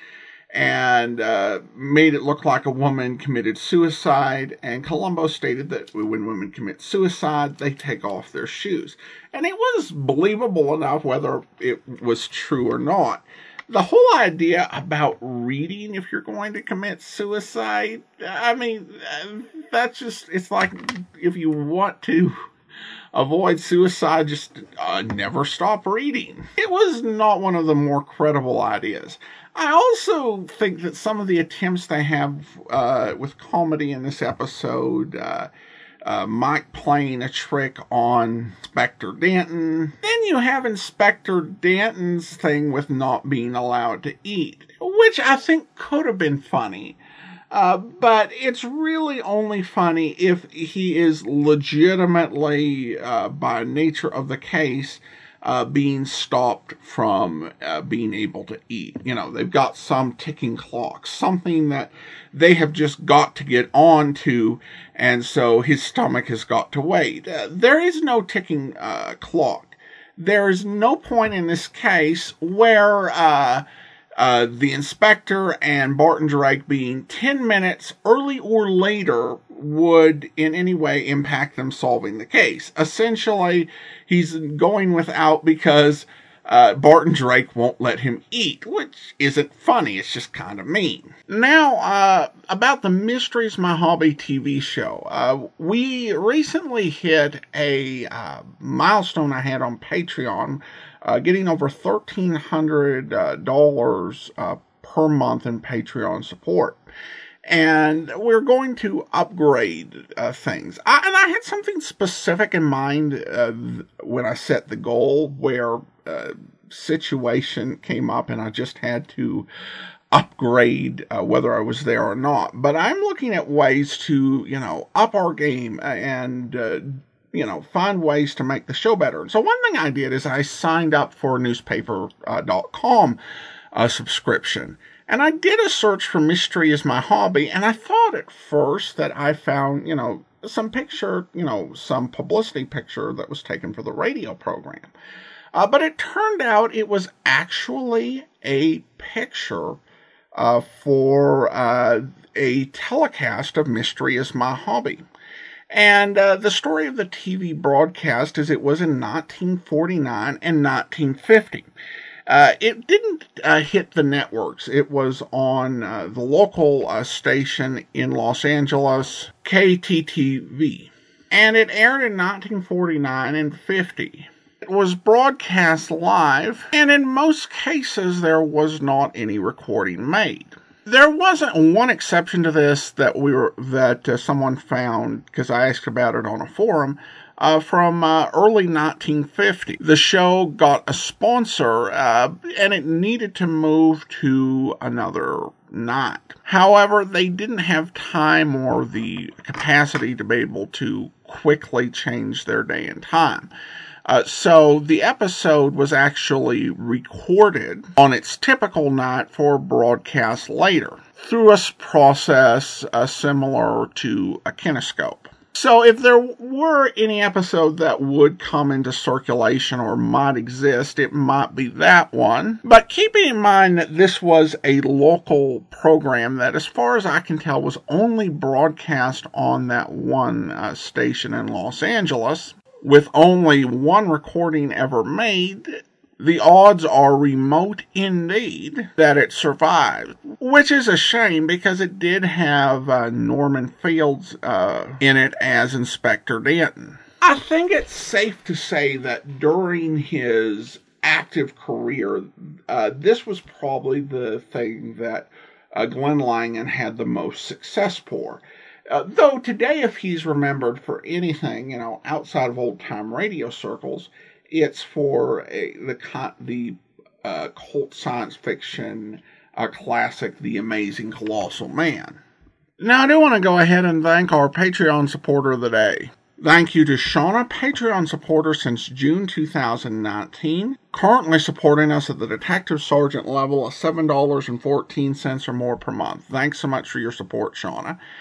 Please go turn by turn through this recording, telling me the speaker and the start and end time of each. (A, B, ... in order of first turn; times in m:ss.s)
0:00.5-0:22.4 A
0:23.1-0:35.5 A
0:36.0-0:47.0 A
0:47.5-1:13.6 A
1:14.2-1:46.8 A
1:47.4-1:59.5 A
2:00.1-2:13.2 A
2:13.7-2:24.9 A
2:25.5-2:29.8 A
2:30.3-2:35.0 A
2:35.7-2:41.7 A
2:42.3-3:23.5 A
3:24.0-4:32.2 A
4:32.8-4:48.0 A